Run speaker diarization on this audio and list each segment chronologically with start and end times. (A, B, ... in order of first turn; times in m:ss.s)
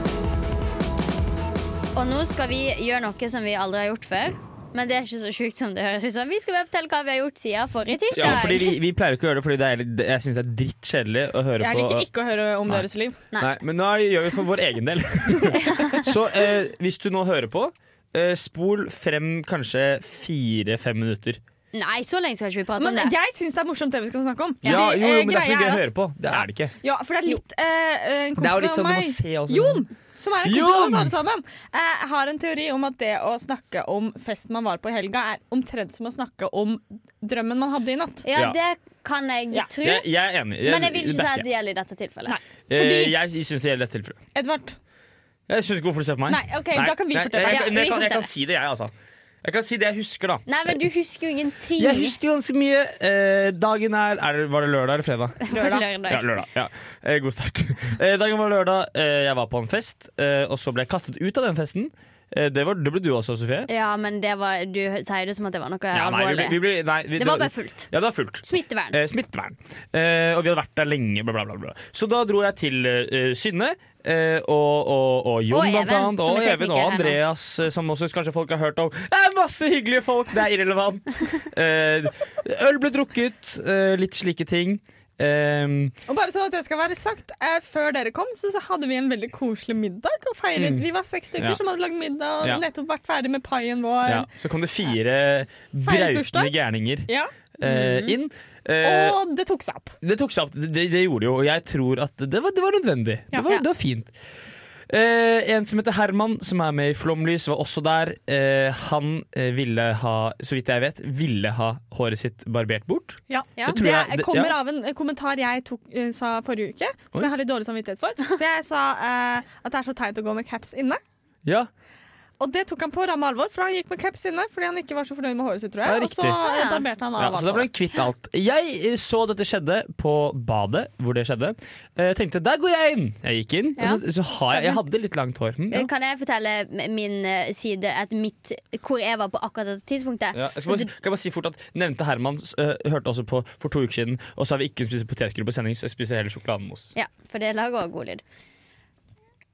0:01.9-0:08.8 A
0:08.1-0:12.1 B
0:11.6-0:13.2 C
0:12.7-0:21.4 B
0:15.5-0:16.1 A
0:21.7-0:23.1 A
0:22.8-0:38.2 C
0:24.6-0:26.7 B
0:28.4-0:29.8 B
0:30.4-0:31.1 B
0:38.2-0:40.1 A
0:39.8-0:41.4 B
0:40.6-0:42.4 A
0:42.2-0:43.2 C
0:42.7-0:44.2 B
0:44.3-0:44.8 C
0:45.5-0:48.9 B
0:46.3-0:47.8 C
0:47.5-0:48.3 A
0:49.4-0:50.8 B
0:50.4-0:52.2 A
0:51.8-0:55.4 B
0:55.4-0:56.4 A
0:55.5-0:55.9 C
0:56.1-1:03.7 B
1:03.7-1:06.6 A
1:05.9-1:25.9 B
1:07.2-1:07.9 A
1:08.4-1:09.0 A
1:15.5-1:17.2 A
1:26.1-1:34.3 C
1:30.6-1:30.8 B
1:34.0-1:39.2 B
1:35.8-1:36.5 C
1:37.6-1:38.2 A
1:38.8-1:40.0 C
1:40.0-1:44.1 B
1:44.9-1:54.6 B
1:53.3-2:01.0 C
2:02.4-2:07.7 C
2:05.8-2:06.4 B
2:06.4-2:06.8 A
2:07.2-2:15.9 B
2:13.8-2:14.0 A
2:15.7-2:20.9 A
2:20.3-2:26.9 B
2:26.9-2:28.2 A